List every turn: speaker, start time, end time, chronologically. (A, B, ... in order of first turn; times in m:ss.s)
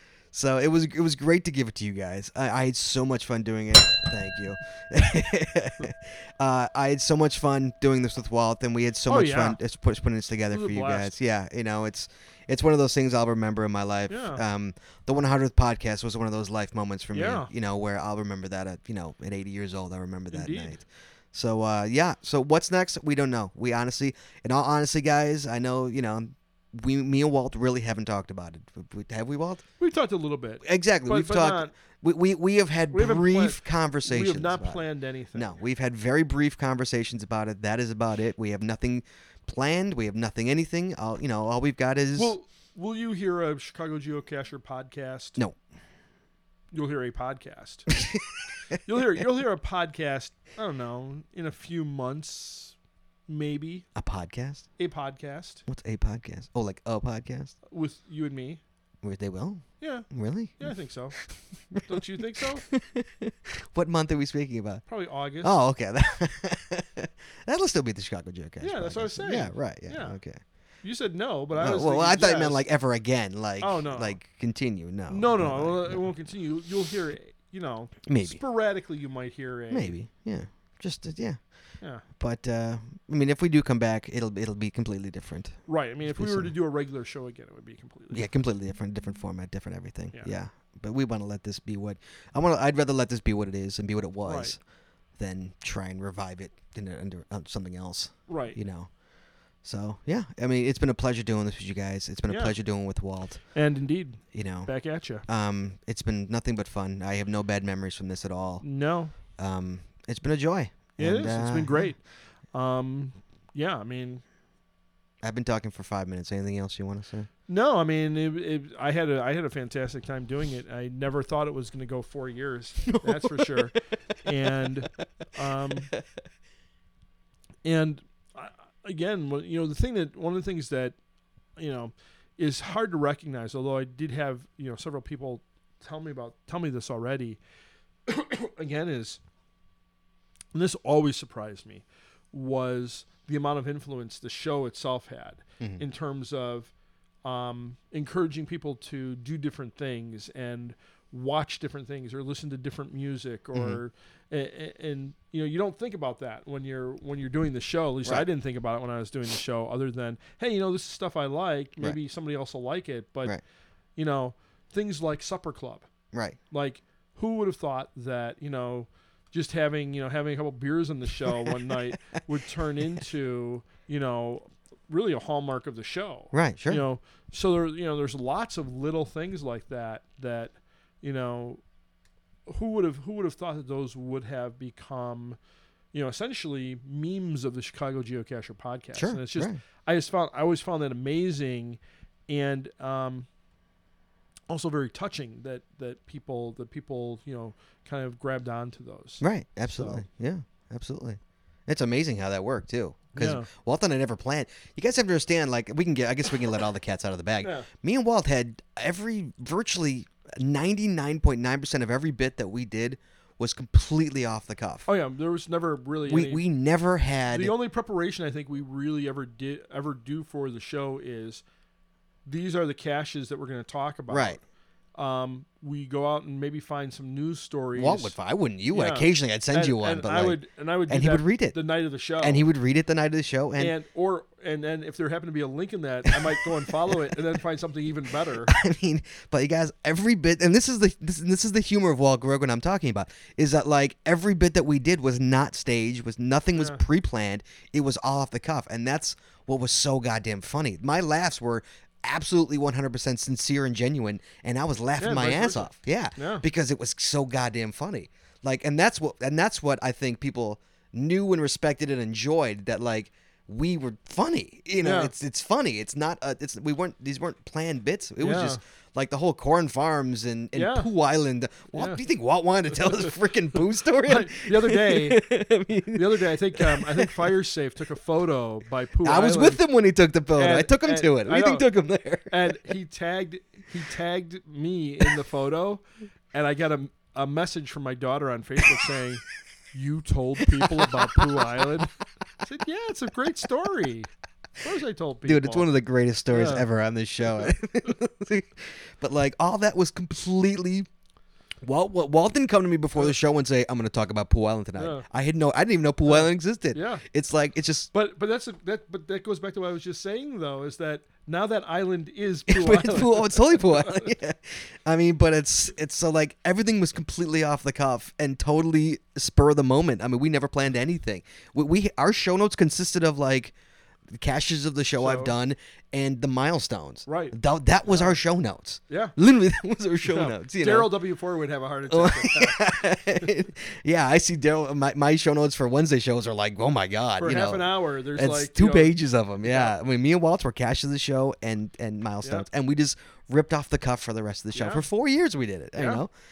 0:00.3-0:29.6 A
0:09.1-0:09.6 B
0:10.5-0:11.1 B
0:14.1-0:14.4 B
0:17.1-0:17.5 B
0:20.3-0:20.8 B
0:29.8-0:31.7 B
0:30.6-0:42.3 A
0:32.9-0:35.5 B
0:42.2-0:45.4 B
0:46.7-0:47.9 B
0:48.8-0:52.8 B
0:53.3-0:53.9 B
0:53.9-0:54.7 A
0:54.8-0:55.6 B
0:55.7-0:57.6 A
0:57.7-0:58.6 B
0:59.0-1:02.0 A
0:59.8-1:01.2 B
1:01.8-1:02.6 B
1:02.6-1:10.4 A
1:04.9-1:05.6 B
1:08.6-1:10.2 B
1:10.8-1:12.6 B
1:11.5-1:16.1 A
1:13.6-1:14.2 B
1:15.1-1:20.0 B
1:18.0-1:18.4 A
1:19.7-1:21.5 A
1:22.0-1:26.5 A
1:25.7-1:28.3 B
1:28.1-1:34.6 A
1:34.2-1:34.5 B
1:35.2-1:38.9 A
1:38.3-1:38.6 B
1:39.6-1:43.5 A
1:42.3-1:42.6 B
1:43.5-1:45.2 B
1:44.3-1:48.7 A
1:48.6-1:49.1 B
1:49.2-1:51.9 A
1:51.0-1:54.2 B
1:55.2-1:57.3 A
1:57.5-2:05.9 B
2:02.9-2:03.8 A
2:07.6-2:11.0 B
2:11.6-2:17.4 B
2:18.1-2:19.2 B
2:20.5-2:26.7 B
2:27.2-2:43.4 B
2:33.5-2:33.8 A
2:44.0-2:45.9 B
2:46.1-2:46.4 A
2:46.5-3:01.6 B
2:56.3-2:56.8 A
3:02.5-3:05.4 B
3:05.9-3:13.3 B
3:08.9-3:09.6 A
3:14.5-3:20.0 B
3:19.2-3:34.9 A
3:23.1-3:23.5 B
3:27.4-3:27.7 B
3:34.8-3:36.4 B
3:36.0-3:37.5 A
3:37.3-3:41.4 B
3:42.2-3:44.4 B
3:44.1-3:44.4 A
3:44.9-3:48.2 B
3:47.7-3:53.7 A
3:48.7-3:52.4 B
3:53.6-3:58.5 B
3:58.4-4:37.2 A
4:06.6-4:06.8 B
4:15.0-4:16.4 B
4:24.8-4:25.1 B
4:28.2-4:28.6 B
4:30.5-4:30.9 B
4:31.7-4:32.0 B
4:32.7-4:33.1 B
4:34.0-4:35.2 B
4:35.9-4:39.6 B
4:39.0-4:42.5 A
4:40.4-4:41.6 B
4:42.3-4:51.9 B
4:50.6-4:50.9 A
4:52.4-4:54.1 B
4:54.6-4:55.7 B
4:55.2-5:00.9 A
4:56.3-4:56.6 B
4:57.2-4:57.5 B
5:01.6-5:07.9 A
5:04.8-5:05.0 B
5:06.0-5:07.0 B
5:07.9-5:14.1 B
5:12.5-5:23.5 A
5:24.1-5:31.0 A
5:25.0-5:25.3 B
5:27.1-5:28.2 B
5:28.9-5:29.1 B
5:30.0-5:32.6 B
5:31.9-5:46.1 A
5:37.2-5:39.7 B
5:44.5-5:44.8 B
5:45.8-5:46.0 B